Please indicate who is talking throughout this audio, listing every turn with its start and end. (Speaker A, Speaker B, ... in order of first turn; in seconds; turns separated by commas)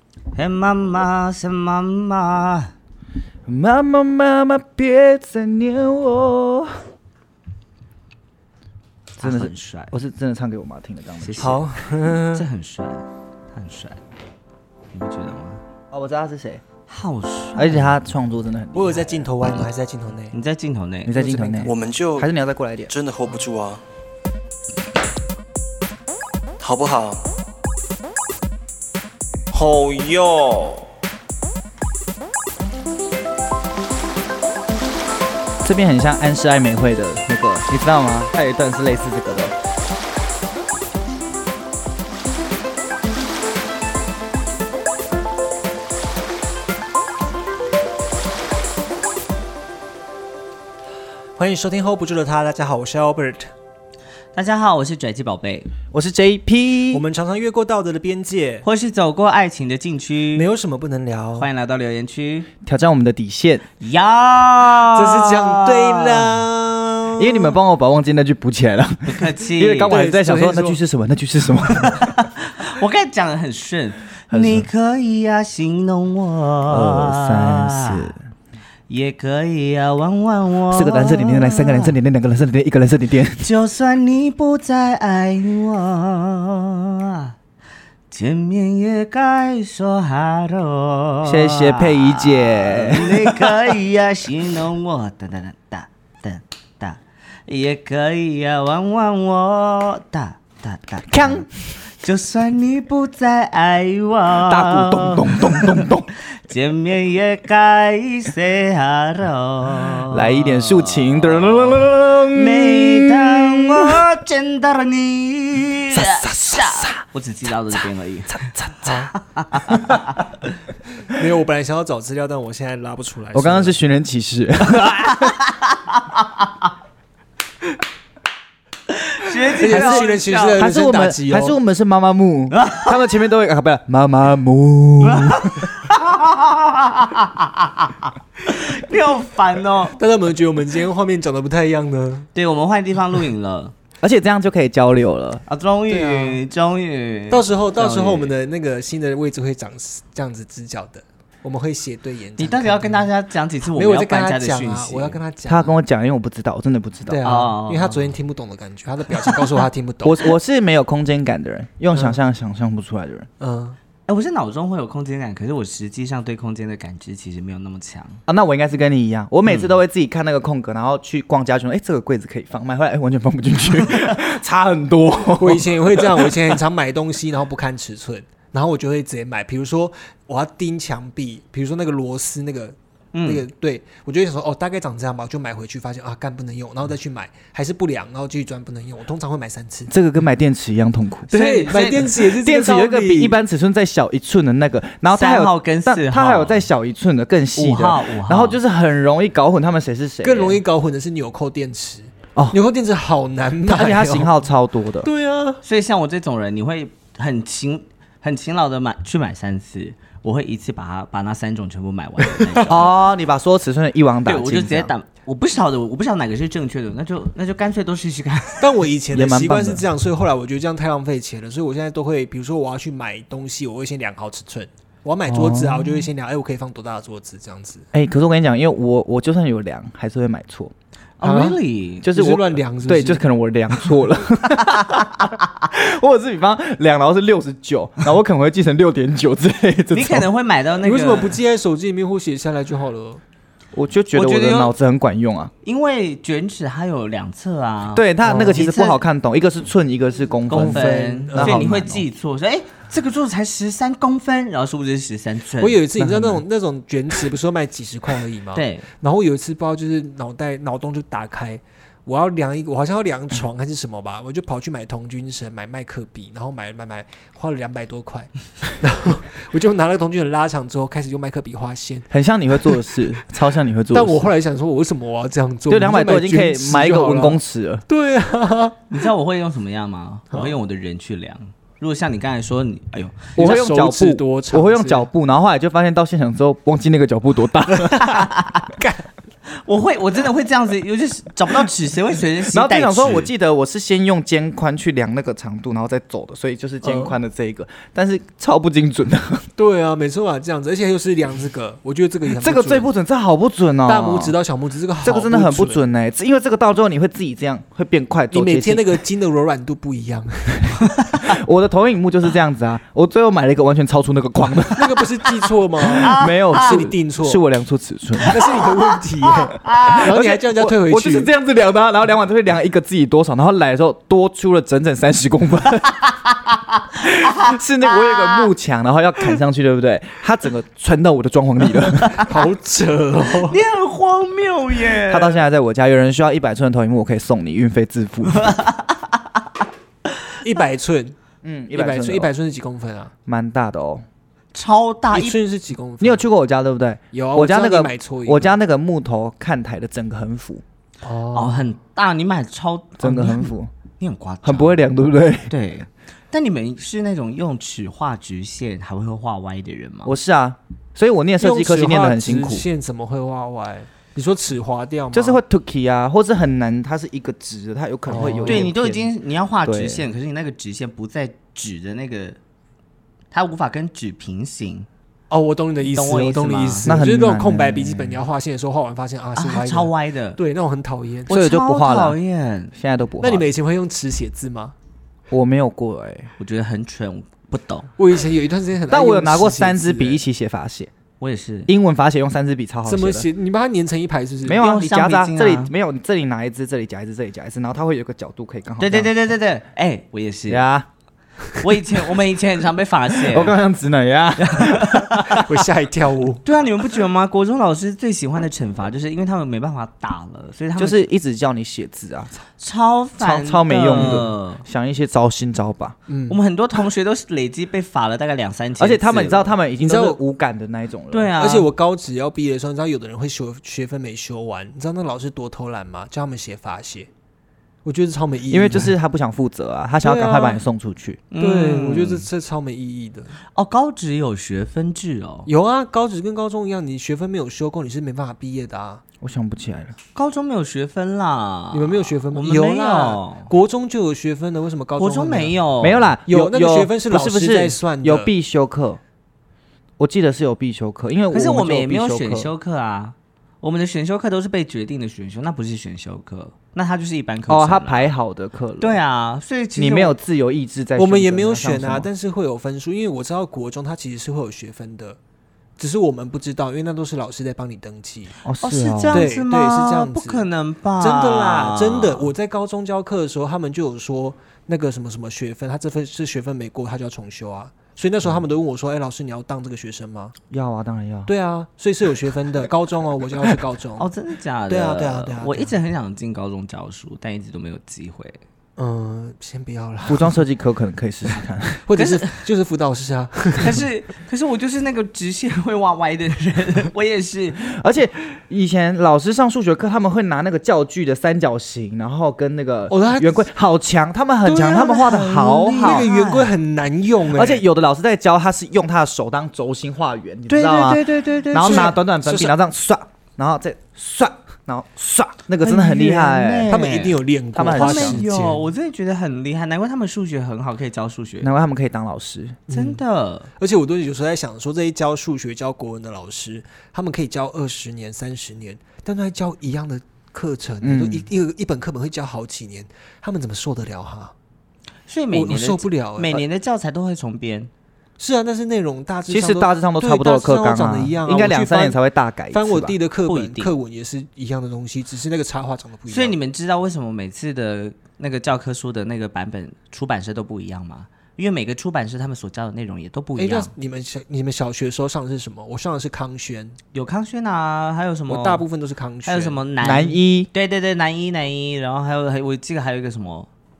Speaker A: 0.3-2.7, Speaker B: 3.5-6.8, Speaker A: 9.2-9.9, Speaker B: 9.2-11.6, Speaker A: 11.2-11.6, Speaker C: 11.4-12.4, Speaker A: 12.3-14.0, Speaker A: 14.9-15.6, Speaker B: 15.9-16.6, Speaker A: 16.9-18.0, Speaker B: 17.6-19.3, Speaker C: 18.7-20.3, Speaker A: 20.3-21.1, Speaker B: 21.1-22.9, Speaker C: 21.1-21.9, Speaker D: 21.6-22.3, Speaker D: 22.9-23.8, Speaker D: 26.6-27.2, Speaker D: 29.5-30.9, Speaker B: 35.6-39.5, Speaker C: 51.4-53.5, Speaker A: 54.3-55.7, Speaker B: 55.9-57.0, Speaker C: 56.9-58.6, Speaker A: 58.6-60.5, Speaker C: 60.3-61.5, Speaker A: 61.4-62.5, Speaker B: 62.6-63.7, Speaker A: 63.8-66.4, Speaker C: 64.8-67.3, Speaker B: 67.2-72.1, Speaker A: 69.0-69.9, Speaker C: 69.9-70.8, Speaker A: 71.8-78.1, Speaker B: 74.3-74.7, Speaker B: 76.7-78.2, Speaker A: 78.9-81.9, Speaker B: 80.7-83.5, Speaker A: 83.4-87.3, Speaker A: 88.1-105.8, Speaker B: 91.2-93.5, Speaker B: 101.1-101.6, Speaker B: 104.4-106.1, Speaker A: 106.4-120.2, Speaker B: 110.1-114.0, Speaker B: 115.9-117.0, Speaker B: 117.8-119.1, Speaker C: 121.1-123.8, Speaker B: 123.3-125.3, Speaker A: 125.2-126.4, Speaker A: 129.0-130.6, Speaker C: 129.6-131.6, Speaker B: 130.6-135.7, Speaker A: 132.5-132.9, Speaker A: 135.0-140.0, Speaker C: 140.0-142.3, Speaker A: 142.3-143.7, Speaker B: 144.0-145.4, Speaker A: 145.5-148.3, Speaker C: 145.9-146.4, Speaker C: 147.3-153.1, Speaker A: 152.4-155.2, Speaker C: 153.7-155.8, Speaker B: 155.4-157.2, Speaker C: 157.1-160.3, Speaker A: 157.2-158.1, Speaker B: 160.0-163.3, Speaker C: 163.4-163.8, Speaker A: 164.1-168.2, Speaker B: 168.3-176.5, Speaker C: 175.3-189.9, Speaker A: 183.1-183.4, Speaker B: 189.9-200.6, Speaker C: 191.3-193.3, Speaker A: 195.1-196.6, Speaker A: 197.6-198.6, Speaker C: 200.2-204.4, Speaker B: 203.7-205.1, Speaker C: 205.0-205.6, Speaker A: 205.6-212.8, Speaker B: 212.7-214.9, Speaker A: 214.3-218.7, Speaker C: 218.6-227.9, Speaker B: 219.1-219.8, Speaker B: 225.3-226.1, Speaker B: 227.9-230.7, Speaker A: 231.2-232.1, Speaker C: 231.2-233.2, Speaker B: 232.0-240.3, Speaker A: 239.9-241.4, Speaker C: 240.8-243.2, Speaker B: 243.7-245.5, Speaker A: 244.1-244.7, Speaker A: 245.6-249.0, Speaker B: 247.9-252.0, Speaker C: 248.2-248.7, Speaker C: 250.5-251.6, Speaker A: 250.5-255.8, Speaker C: 255.6-272.1, Speaker A: 258.5-258.9, Speaker B: 272.1-274.3, Speaker C: 273.9-278.8, Speaker B: 275.7-277.8, Speaker A: 278.9-283.5, Speaker C: 283.4-285.1, Speaker B: 283.4-288.3, Speaker A: 288.0-288.6, Speaker A: 289.5-293.3, Speaker B: 292.5-299.4, Speaker C: 296.8-297.1, Speaker C: 299.6-302.9, Speaker B: 302.3-304.4, Speaker C: 303.9-305.8, Speaker B: 305.0-308.9, Speaker C: 308.3-310.8, Speaker B: 311.1-318.4, Speaker C: 314.7-317.4, Speaker A: 316.0-316.7, Speaker C: 318.3-321.3, Speaker A: 319.5-320.1, Speaker B: 319.8-326.0, Speaker B: 327.0-332.2, Speaker A: 327.2-328.4, Speaker C: 332.2-333.6, Speaker A: 333.4-335.4, Speaker B: 335.1-338.5, Speaker A: 338.4-339.2, Speaker C: 340.4-341.1, Speaker B: 341.4-342.3, Speaker C: 341.7-343.1, Speaker B: 343.2-344.1, Speaker A: 344.5-345.4, Speaker C: 345.1-346.3, Speaker B: 346.0-350.6, Speaker C: 347.1-348.5, Speaker C: 351.0-351.7, Speaker A: 351.3-354.8, Speaker B: 353.0-353.7, Speaker B: 354.4-355.5, Speaker A: 355.5-360.1, Speaker B: 360.0-362.6, Speaker C: 361.4-365.4, Speaker B: 365.1-369.1, Speaker C: 368.1-368.7, Speaker A: 368.4-372.4, Speaker B: 369.6-370.0, Speaker A: 373.3-374.9, Speaker C: 375.3-381.3, Speaker A: 375.8-376.9, Speaker B: 376.8-378.2, Speaker A: 379.4-380.4, Speaker B: 381.3-382.2, Speaker A: 381.3-382.7, Speaker B: 382.7-383.5, Speaker C: 383.2-384.7, Speaker B: 385.3-386.3, Speaker A: 386.4-387.9, Speaker C: 388.0-390.2, Speaker B: 388.9-390.9, Speaker A: 391.2-391.7, Speaker B: 391.7-393.3, Speaker C: 392.8-394.6, Speaker B: 394.4-399.1, Speaker A: 394.6-395.7, Speaker A: 398.8-400.7, Speaker B: 400.5-400.9, Speaker A: 401.6-403.6, Speaker B: 403.2-405.6, Speaker A: 404.4-405.4, Speaker C: 405.4-406.4, Speaker A: 406.4-411.1, Speaker B: 410.8-412.4, Speaker A: 412.6-414.6, Speaker B: 413.2-415.9, Speaker C: 413.9-414.2, Speaker C: 416.1-416.4, Speaker A: 416.3-419.6, Speaker B: 418.8-421.3, Speaker C: 419.8-420.2, Speaker A: 421.1-421.7, Speaker C: 421.4-427.1, Speaker C: 427.8-428.9, Speaker B: 428.5-431.2, Speaker C: 430.0-430.6, Speaker A: 431.3-432.3, Speaker C: 431.4-433.4, Speaker A: 433.5-435.5, Speaker C: 435.4-439.0, Speaker B: 439.2-439.9, Speaker A: 440.1-443.5, Speaker C: 441.7-445.6, Speaker A: 445.0-446.1, Speaker B: 445.8-449.0, Speaker C: 446.3-448.3, Speaker B: 450.0-452.5, Speaker A: 451.3-458.1, Speaker B: 457.5-459.0, Speaker A: 458.8-460.2, Speaker B: 459.8-462.1, Speaker C: 460.9-465.2, Speaker C: 465.8-468.4, Speaker B: 468.4-469.2, Speaker A: 468.6-472.3, Speaker C: 469.1-470.4, Speaker C: 471.0-480.3, Speaker B: 480.5-481.3, Speaker C: 481.3-484.1, Speaker A: 484.0-488.4, Speaker C: 484.7-485.7, Speaker C: 488.8-490.4, Speaker B: 490.1-491.8, Speaker C: 491.8-493.8, Speaker A: 491.9-492.4, Speaker A: 493.6-497.6, Speaker B: 497.6-506.1, Speaker C: 502.9-503.4, Speaker C: 504.4-507.6, Speaker A: 504.8-506.5, Speaker B: 507.3-516.7, Speaker A: 510.5-511.9, Speaker C: 511.6-512.5, Speaker A: 515.6-517.2, Speaker C: 516.7-518.7, Speaker B: 517.5-518.2, Speaker A: 517.7-521.5, Speaker B: 521.4-522.6, Speaker C: 522.7-523.0, Speaker A: 522.7-523.5, Speaker C: 523.6-534.3, Speaker B: 530.8-531.3, Speaker A: 535.1-537.7, Speaker C: 535.3-536.4, Speaker C: 538.2-542.0, Speaker B: 539.3-543.0, Speaker C: 542.5-546.4, Speaker A: 543.3-543.7, Speaker A: 546.1-553.7, Speaker C: 553.4-556.8, Speaker A: 556.9-558.6, Speaker C: 558.3-559.6, Speaker A: 559.2-563.5, Speaker B: 559.8-560.5